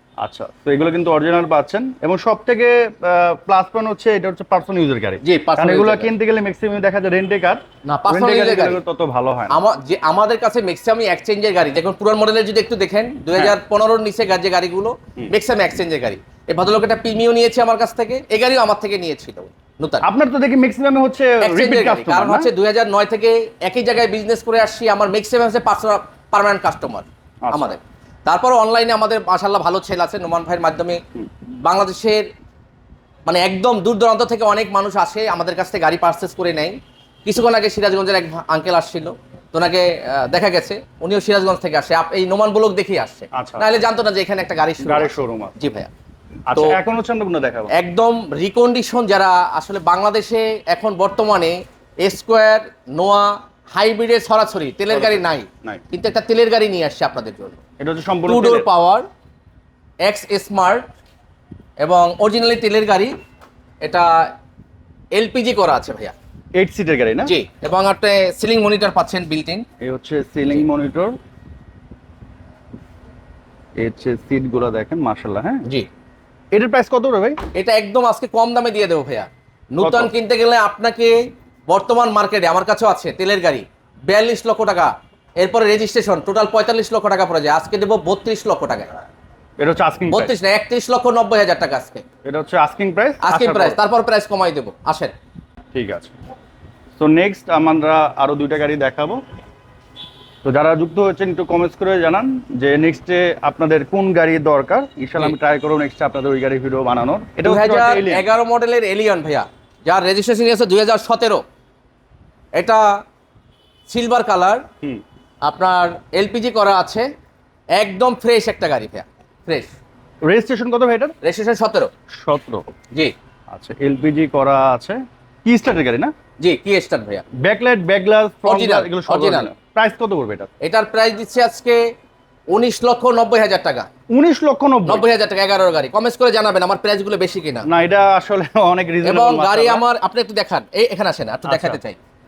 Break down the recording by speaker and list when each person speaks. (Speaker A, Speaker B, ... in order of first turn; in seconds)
Speaker A: 0.2-9.6, 20.0-22.5, 27.4-27.8, 43.3-43.8, 44.8-45.6, 46.5-47.7, 54.9-55.8, 57.8-58.7, 66.5-67.3, 69.8-71.2, 73.8-75.6, 76.5-77.4, 79.8-80.1, 89.6-90.3, 92.2-93.8, 95.7-96.1, 97.0-99.2, 100.4-108.3, 120.2-121.1, 122.1-122.7, 123.5-126.1, 127.4-130.5, 134.1-135.1, 137.7-139.8, 141.4-141.8
Speaker B: 5.2-6.1, 7.8-8.8, 9.5-20.0, 21.4-32.3, 33.2-45.9, 47.7-57.6, 58.3-59.0, 60.0-60.9, 61.8-63.1, 63.8-64.3, 65.1-66.1, 67.2-69.6, 77.5-88.9, 90.1-92.0, 93.2-95.1, 107.4-111.4, 112.5-113.0, 113.9-114.6, 115.4-117.1, 117.8-119.8, 121.2-121.9, 126.4-127.2, 128.4-129.5, 130.6-131.8, 132.5-133.9, 134.8-137.7, 139.0-142.0